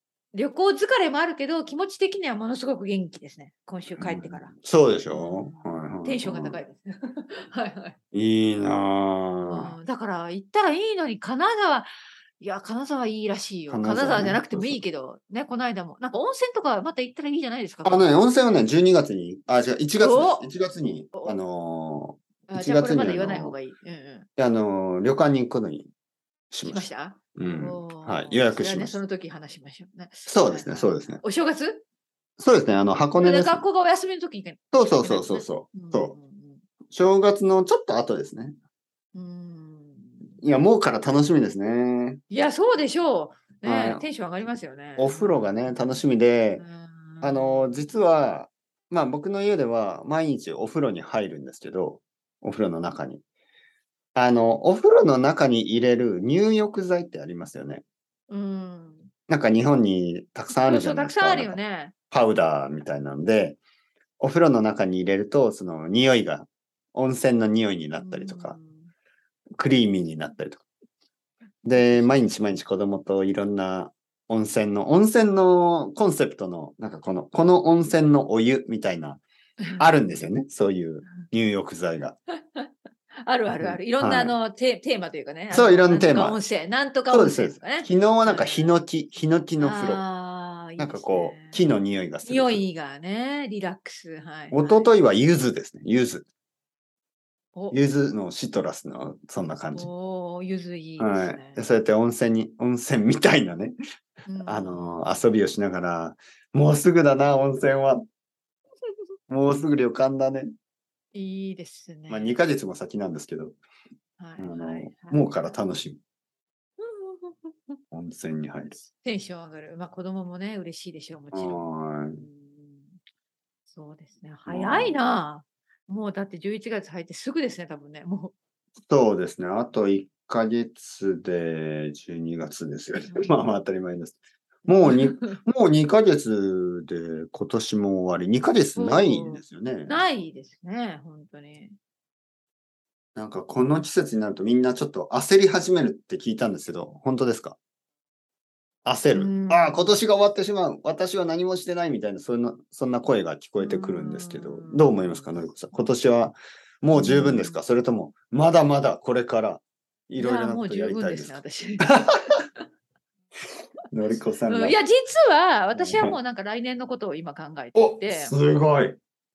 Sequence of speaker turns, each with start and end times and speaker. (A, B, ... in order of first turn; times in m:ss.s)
0:00.3-0:04.5 A
0:04.0-0:06.6 B
0:05.1-0:08.0 A
0:08.1-0:09.8 B
0:09.5-0:18.3 A
0:13.7-0:14.8 B
0:17.8-0:23.6 B
0:20.0-0:20.5 A
0:22.5-0:24.3 A
0:24.4-0:25.9 B
0:26.5-0:29.0 B
0:26.6-0:31.8 A
0:30.3-0:31.2 B
0:32.4-0:33.6 B
0:33.2-0:36.6 A
0:34.7-0:36.2 B
0:36.9-0:38.6 B
0:39.1-0:40.4 A
0:40.4-0:42.2 B
0:42.3-0:46.0 A
0:43.6-0:44.1 B
0:45.0-0:46.6 B
0:46.6-0:47.9 A
0:47.2-0:53.2 B
0:54.2-0:57.8 B
0:58.3-0:59.1 A
0:59.3-1:01.6 B
1:00.5-1:01.9 A
1:02.1-1:03.6 B
1:04.2-1:08.6 B
1:08.0-1:08.9 A
1:09.6-1:10.6 B
1:11.6-1:19.2 B
1:11.7-1:12.1 A
1:19.8-1:22.2 B
1:23.2-1:28.8 A
1:23.6-1:24.4 B
1:25.5-1:26.4 B
1:27.1-1:30.0 B
1:29.6-1:31.6 A
1:30.8-1:32.6 B
1:32.2-1:35.0 A
1:34.5-1:36.3 B
1:37.7-1:39.9 B
1:39.7-1:41.6 A
1:41.0-1:43.8 B
1:44.3-1:45.2 A
1:44.4-1:48.0 B
1:49.3-1:50.5 B
1:51.1-1:52.4 A
1:52.1-1:53.6 B
1:54.2-1:55.6 A
1:54.4-1:56.0 B
1:56.8-1:57.8 A
1:57.9-1:58.8 B
1:58.9-2:03.0 A
2:01.3-2:02.2 B
2:03.7-2:08.3 A
2:04.5-2:05.0 B
2:08.9-2:20.0 B
2:13.1-2:13.4 A
2:14.8-2:15.4 A
2:18.8-2:21.8 A
2:23.2-2:27.6 B
2:28.8-2:42.2 B
2:29.1-2:30.0 A
2:33.6-2:35.4 A
2:36.9-2:37.6 A
2:40.2-2:42.0 A
2:43.9-2:44.8 B
2:44.1-2:48.4 A
2:45.8-2:46.2 B
2:47.8-2:49.0 B